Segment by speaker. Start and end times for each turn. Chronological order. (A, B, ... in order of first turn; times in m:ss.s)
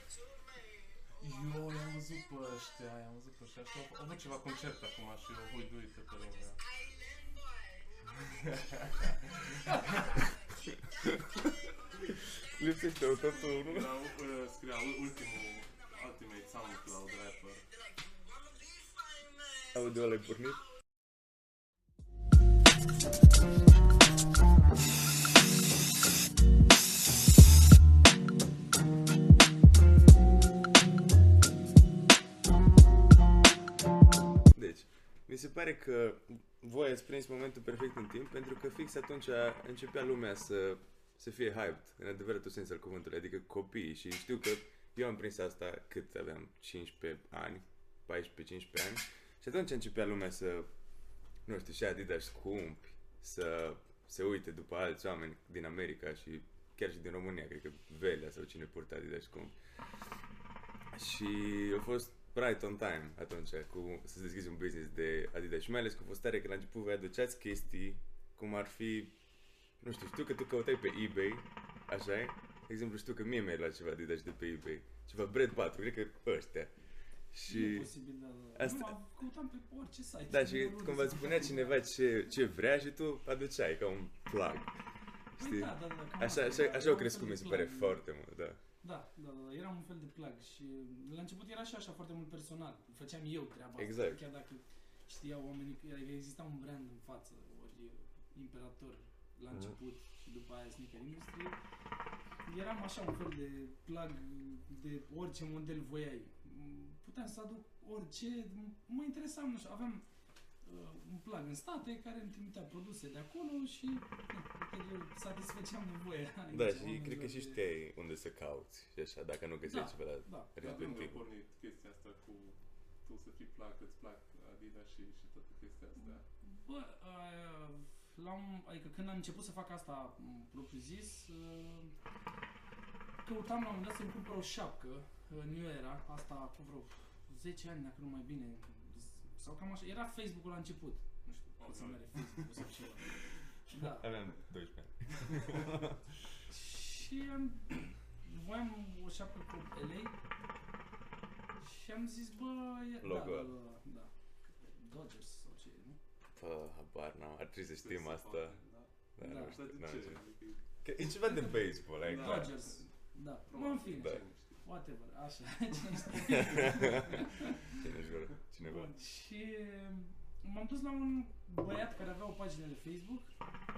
0:01.2-0:06.6 A
0:08.3-0:09.8 A
0:12.5-0:14.0 B
0:13.6-0:17.7 A
0:19.7-0:20.7 B
0:34.5-0:50.7 B
0:51.5-0:59.6 B
1:00.9-1:09.1 B
1:09.8-1:16.7 B
1:17.3-1:17.9 B
1:17.5-1:21.8 C
1:18.6-1:19.0 B
1:20.3-1:24.7 B
1:25.4-1:28.6 B
1:25.4-1:28.0 C
1:28.8-1:41.6 C
1:33.8-1:34.2 B
1:42.5-1:50.1 C
1:50.6-1:57.6 C
1:56.5-2:01.2 B
1:59.6-2:01.0 C
2:00.6-2:06.2 A
2:06.0-2:11.9 C
2:13.2-2:23.1 C
2:21.6-2:22.6 A
2:23.7-2:24.2 C
2:23.8-2:26.0 B
2:26.5-2:30.2 C
2:31.6-2:36.0 C
2:33.0-2:33.5 B
2:36.4-2:38.6 B
2:37.8-2:40.6 A
2:39.2-2:40.2 B
2:39.2-2:39.6 C
2:40.8-2:42.6 B
2:41.2-2:47.8 C
2:42.0-2:42.8 A
2:43.5-2:44.6 A
2:46.3-2:48.9 B
2:48.6-2:53.3 C